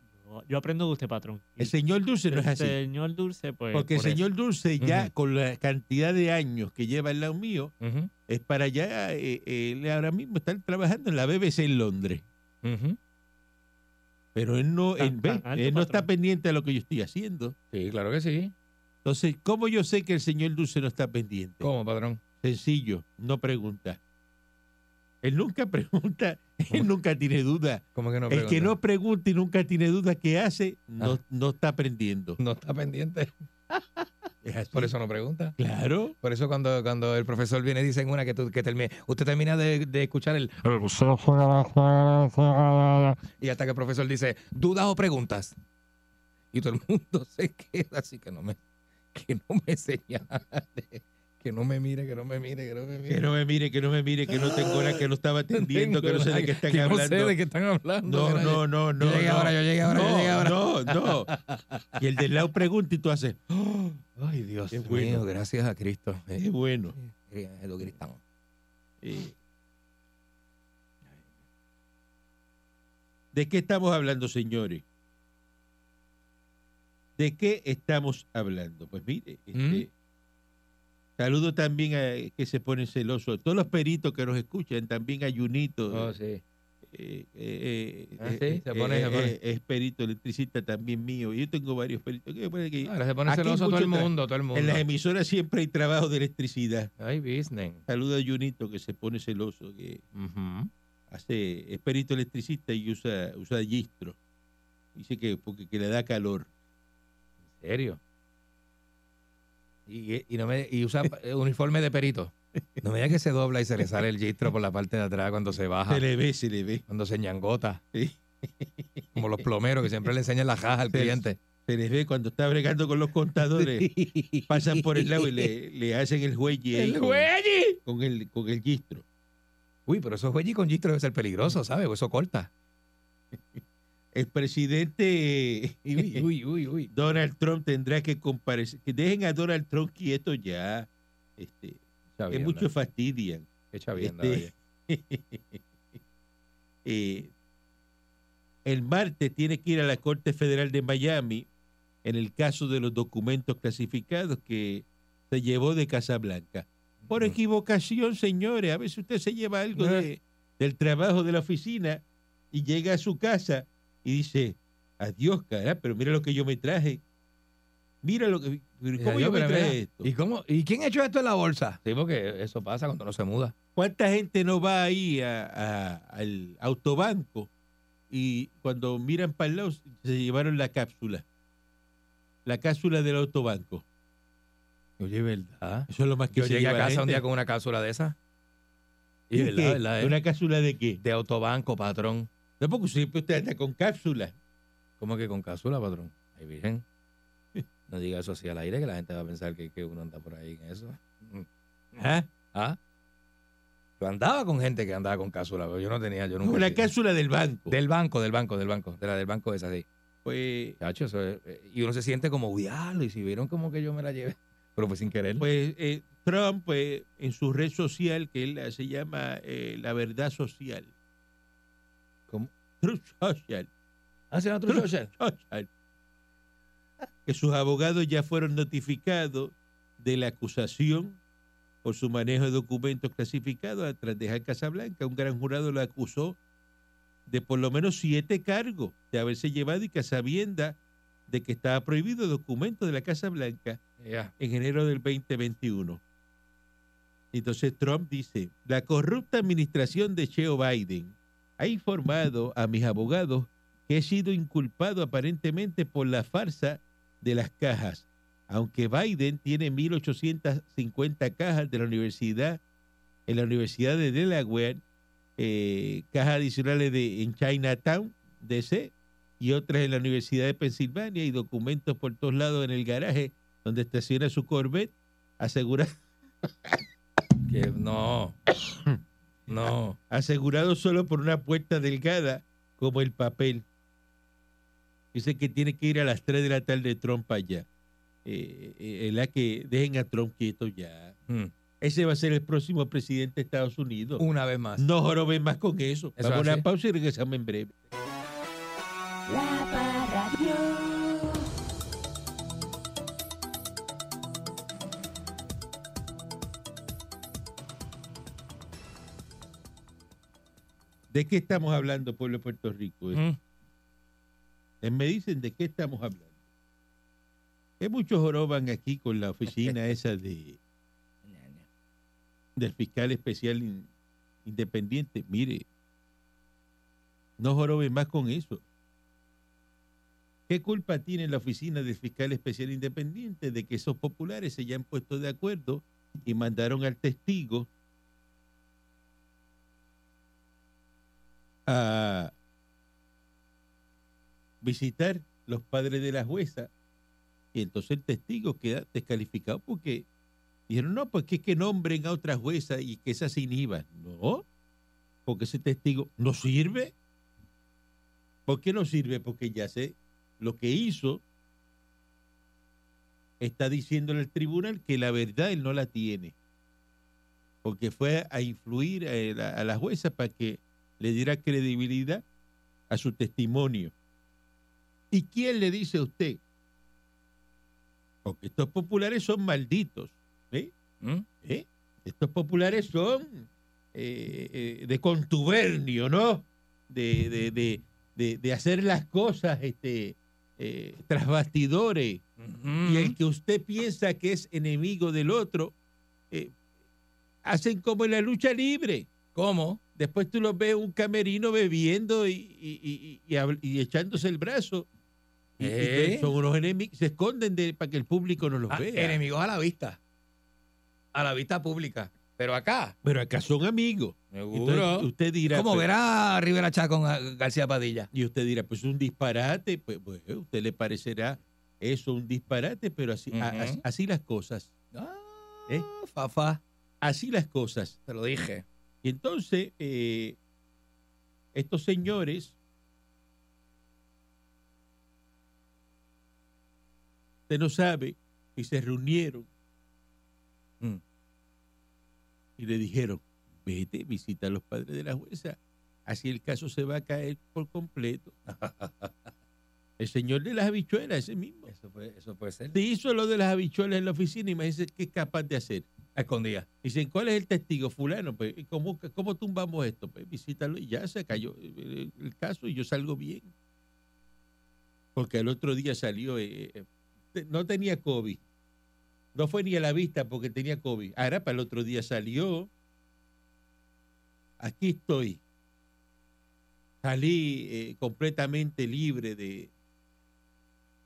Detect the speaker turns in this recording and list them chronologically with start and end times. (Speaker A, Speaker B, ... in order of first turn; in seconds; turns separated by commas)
Speaker A: 0.2-1.7, Speaker B: 1.6-2.8, Speaker A: 2.3-4.2, Speaker B: 3.7-7.7, Speaker C: 4.8-5.1, Speaker C: 7.8-8.1, Speaker B: 8.3-12.2, Speaker C: 12.6-13.0, Speaker B: 14.3-17.6, Speaker A: 15.0-16.1, Speaker C: 17.7-18.5, Speaker B: 19.1-21.7, Speaker C: 21.6-22.2, Speaker B: 22.4-24.0, Speaker B: 25.2-32.4, Speaker C: 27.9-28.8, Speaker C: 32.4-34.1, Speaker B: 34.4-34.9, Speaker C: 34.7-35.6, Speaker B: 35.6-36.1, Speaker C: 36.2-45.5, Speaker C: 46.5-48.6, Speaker C: 49.1-53.2, Speaker B: 53.1-57.4, Speaker C: 54.3-62.0, Speaker B: 58.0-61.3, Speaker B: 62.0-63.4, Speaker C: 63.5-66.4, Speaker B: 64.7-65.2, Speaker B: 66.4-67.0, Speaker C: 67.0-68.2, Speaker B: 69.0-69.3, Speaker B: 73.3-74.8, Speaker B: 77.2-79.9, Speaker C: 79.5-79.8, Speaker B: 81.2-86.1, Speaker C: 85.9-86.4, Speaker B: 86.9-96.9, Speaker C: 88.2-89.3, Speaker C: 92.8-94.8, Speaker C: 97.0-97.8, Speaker B: 97.9-100.0, Speaker C: 100.1-100.7, Speaker B: 101.1-104.2, Speaker B: 105.0-106.5, Speaker C: 107.5-108.0, Speaker C: 109.9-116.0, Speaker B: 115.9-116.8, Speaker C: 116.9-117.8, Speaker B: 117.9-119.2, Speaker C: 119.2-121.4, Speaker B: 120.9-123.9, Speaker C: 123.6-125.5, Speaker B: 124.5-127.3, Speaker C: 126.7-127.8, Speaker B: 127.8-129.0, Speaker C: 129.9-132.5, Speaker B: 133.3-133.6, Speaker B: 134.2-136.2, Speaker C: 136.0-137.1, Speaker B: 136.9-145.6, Speaker C: 142.2-142.7, Speaker C: 143.7-144.5, Speaker B: 146.8-147.3, Speaker B: 148.7-151.5, Speaker B: 152.0-167.0, Speaker C: 157.1-157.4, Speaker C: 159.8-160.1, Speaker B: 168.0-170.1, Speaker C: 169.0-173.5, Speaker B: 173.8-177.5, Speaker B: 178.1-181.2, Speaker B: 182.5-183.8, Speaker C: 185.0-188.2, Speaker B: 185.9-187.2, Speaker C: 189.3-190.2, Speaker B: 189.3-191.0, Speaker C: 191.0-192.3, Speaker B: 192.6-194.3, Speaker C: 195.0-196.8, Speaker C: 197.9-201.5, Speaker B: 202.0-202.3, Speaker C: 202.5-202.8, Speaker C: 204.0-206.9, Speaker B: 206.4-207.8, Speaker C: 207.7-209.9, Speaker B: 210.2-210.8, Speaker C: 210.8-215.5, Speaker B: 215.4-220.9, Speaker B: 222.8-223.7, Speaker C: 224.3-225.1, Speaker B: 224.7-225.7, Speaker B: 227.2-231.2, Speaker B: 231.8-236.4, Speaker B: 237.3-243.8, Speaker C: 244.0-244.3, Speaker B: 244.4-246.0, Speaker B: 247.3-262.6, Speaker B: 263.3-264.8, Speaker B: 265.4-276.0, Speaker C: 277.4-278.4, Speaker C: 279.5-280.0, Speaker B: 280.1-283.6, Speaker B: 285.1-287.7, Speaker B: 288.2-291.1, Speaker B: 291.8-294.2, Speaker C: 294.2-294.9, Speaker B: 294.8-297.7, Speaker C: 296.2-296.6, Speaker D: 299.3-301.4, Speaker B: 311.1-313.2, Speaker C: 313.1-313.4, Speaker B: 314.8-316.3, Speaker B: 317.8-320.6, Speaker C: 321.3-321.6, Speaker B: 322.6-323.9, Speaker B: 324.4-325.6, Speaker B: 327.4-328.6, Speaker B: 330.5-337.7, Speaker B: 341.7-342.3, Speaker B: 344.6-346.7, Speaker B: 347.5-350.1, Speaker B: 350.7-354.4, Speaker B: 355.3-356.9, Speaker B: 358.5-361.2, Speaker B: 363.4-366.3, Speaker B: 367.6-372.2, Speaker B: 372.9-373.9, Speaker B: 375.1-376.4, Speaker B: 378.2-380.7, Speaker B: 381.4-392.2, Speaker C: 392.4-393.1, Speaker B: 392.8-395.8, Speaker B: 397.4-399.1, Speaker C: 399.4-399.8, Speaker B: 400.0-404.9, Speaker B: 405.6-409.2, Speaker C: 405.6-406.3, Speaker C: 408.7-410.0, Speaker C: 411.1-412.9, Speaker B: 413.0-415.9, Speaker C: 414.3-418.1, Speaker B: 418.1-424.7, Speaker C: 423.3-423.8, Speaker C: 424.9-426.6, Speaker B: 427.0-428.0, Speaker C: 428.1-428.6, Speaker B: 429.0-430.4, Speaker B: 431.5-432.6, Speaker B: 437.5-439.5, Speaker B: 442.6-448.4, Speaker C: 448.5-449.3, Speaker B: 450.0-451.7, Speaker C: 451.7-452.8, Speaker B: 452.7-455.9, Speaker C: 456.1-456.6, Speaker B: 456.8-463.5, Speaker B: 465.1-468.4, Speaker B: 469.4-472.7, Speaker B: 474.6-475.4, Speaker B: 477.0-479.7